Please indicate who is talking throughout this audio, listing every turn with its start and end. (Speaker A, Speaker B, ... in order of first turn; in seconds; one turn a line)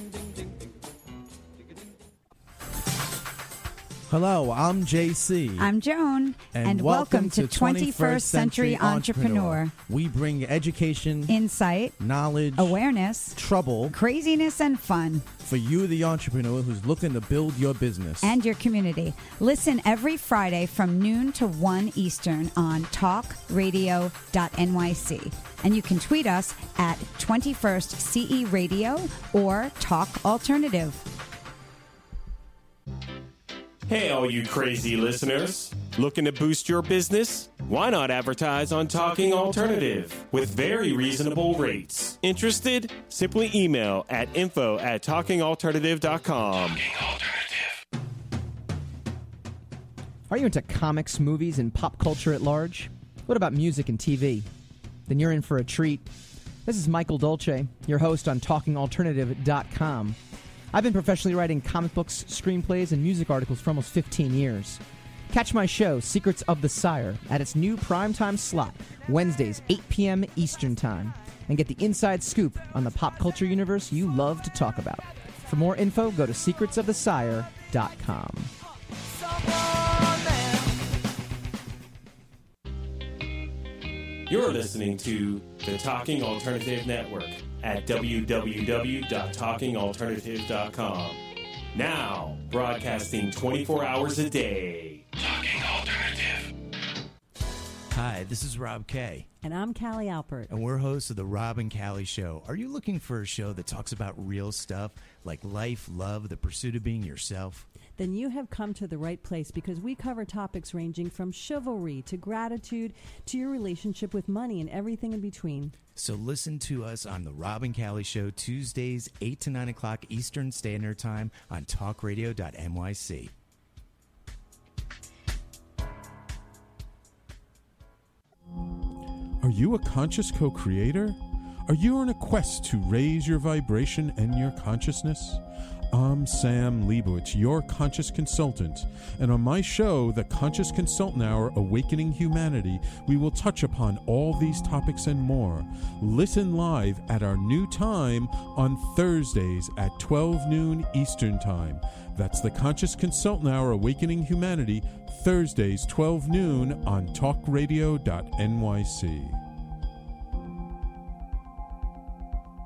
Speaker A: 4.1-5.7
Speaker B: 5.6-9.7
Speaker A: 6.5-11.3
Speaker B: 11.3-11.9
Speaker A: 12.0-12.8
Speaker B: 12.5-15.2
Speaker A: 13.3-13.9
Speaker A: 15.4-18.4
Speaker B: 18.2-31.0
Speaker C: 33.9-46.9
Speaker D: 50.3-54.5
Speaker D: 55.1-56.1
Speaker D: 56.6-60.2
Speaker D: 60.7-78.5
Speaker C: 84.3-91.2
Speaker C: 91.7-95.0
Speaker E: 97.9-99.3
Speaker F: 99.4-100.5
Speaker E: 100.5-107.7
Speaker F: 108.0-115.7
Speaker E: 115.9-123.3
Speaker G: 129.4-159.4